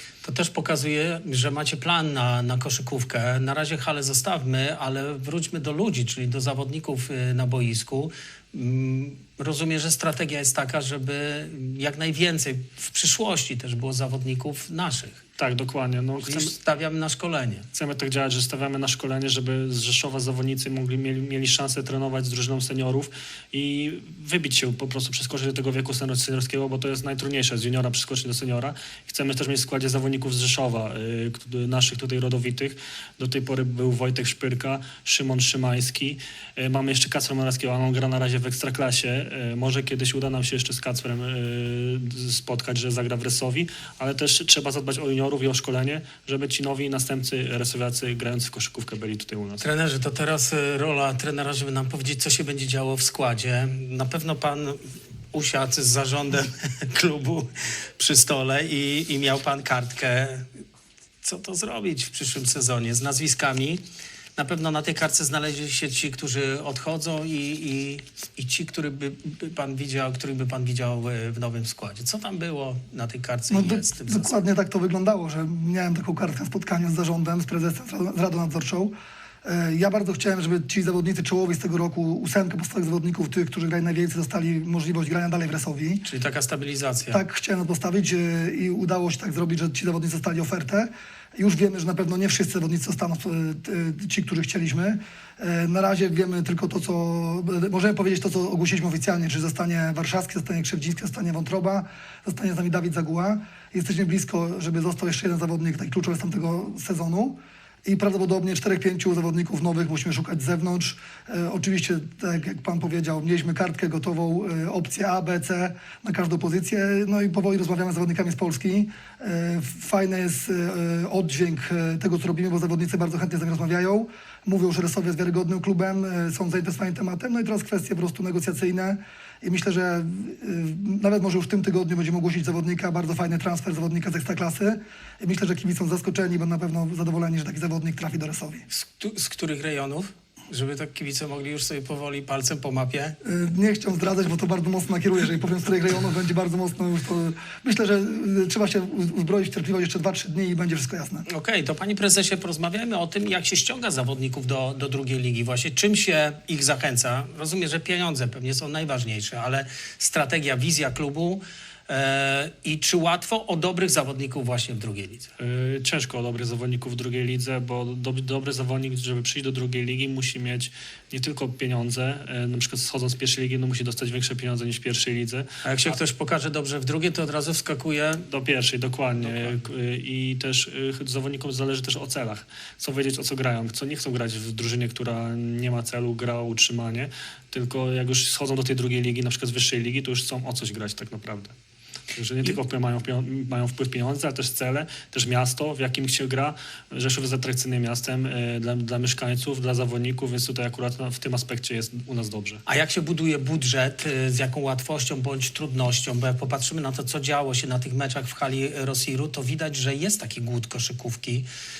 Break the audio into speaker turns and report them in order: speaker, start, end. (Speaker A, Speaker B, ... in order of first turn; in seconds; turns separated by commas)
Speaker A: 0.2-15.2, Speaker B: 15.4-16.6, Speaker A: 16.2-17.7, Speaker B: 17.7-49.6, Speaker A: 49.6-60.5, Speaker A: 61.2-63.8, Speaker A: 64.4-74.4, Speaker C: 73.5-78.9, Speaker C: 79.4-86.0, Speaker A: 86.0-87.2, Speaker C: 87.1-138.6, Speaker A: 138.7-143.2, Speaker C: 143.2-151.2, Speaker A: 151.3-165.3, Speaker B: 165.4-176.0, Speaker A: 175.6-178.3, Speaker B: 178.3-191.5, Speaker A: 179.2-179.6, Speaker B: 192.1-202.6, Speaker A: 202.7-211.4